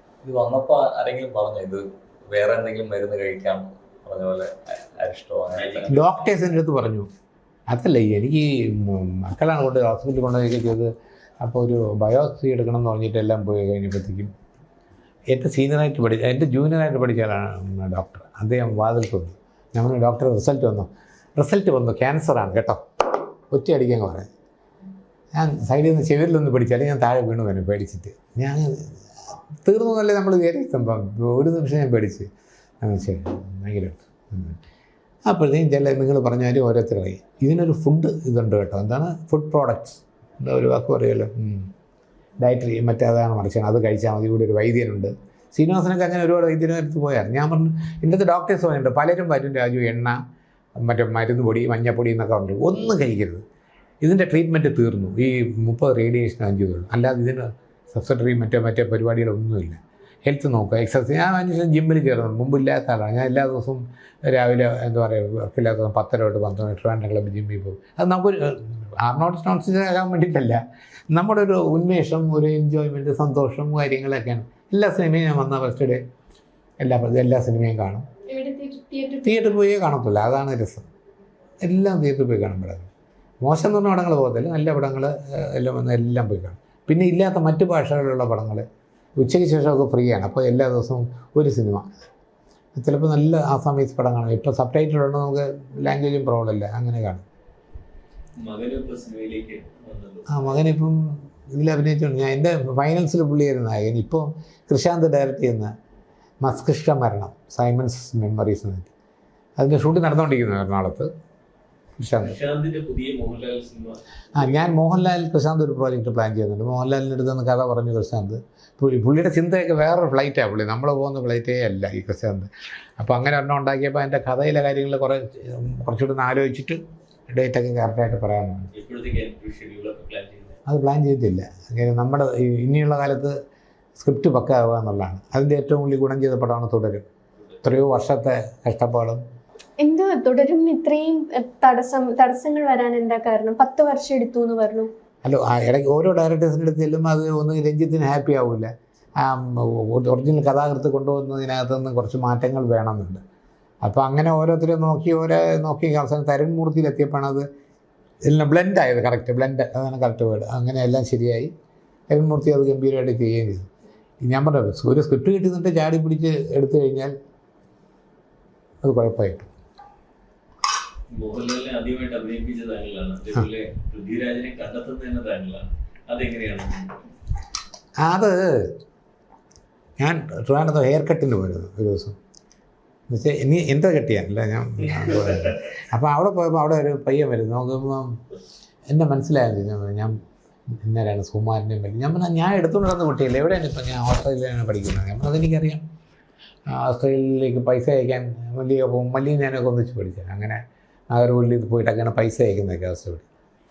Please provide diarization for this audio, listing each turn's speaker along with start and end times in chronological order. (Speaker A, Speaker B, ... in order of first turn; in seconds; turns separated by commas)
Speaker A: 0.2-6.1, Speaker B: 5.9-7.1, Speaker B: 7.7-10.9, Speaker B: 11.4-14.3, Speaker B: 15.3-22.8, Speaker B: 23.5-24.3, Speaker B: 25.3-32.3, Speaker B: 32.8-34.6, Speaker B: 35.2-41.7, Speaker B: 42.4-50.2, Speaker B: 50.8-53.4, Speaker B: 54.0-70.6, Speaker B: 71.1-76.0, Speaker B: 76.8-78.0, Speaker C: 78.3-79.5, Speaker B: 79.2-80.9, Speaker B: 81.6-82.9, Speaker B: 83.4-88.6, Speaker B: 89.2-91.9, Speaker B: 92.8-97.2, Speaker A: 98.4-100.6, Speaker B: 100.3-101.0, Speaker B: 101.5-105.7, Speaker B: 106.4-108.9, Speaker B: 109.6-111.1, Speaker B: 112.0-112.4, Speaker A: 112.2-114.5, Speaker B: 114.3-128.7, Speaker A: 128.7-130.6, Speaker B: 130.7-133.3, Speaker B: 133.9-137.1, Speaker B: 137.6-139.2, Speaker C: 139.8-144.9, Speaker B: 145.2-153.2, Speaker B: 153.8-157.5, Speaker B: 158.2-161.5, Speaker B: 162.1-163.7, Speaker B: 164.2-167.1, Speaker B: 168.8-169.5, Speaker A: 171.1-176.9, Speaker B: 178.0-178.7, Speaker B: 180.0-182.2, Speaker B: 183.1-188.2, Speaker B: 188.9-190.2, Speaker B: 190.8-195.8, Speaker B: 196.7-203.2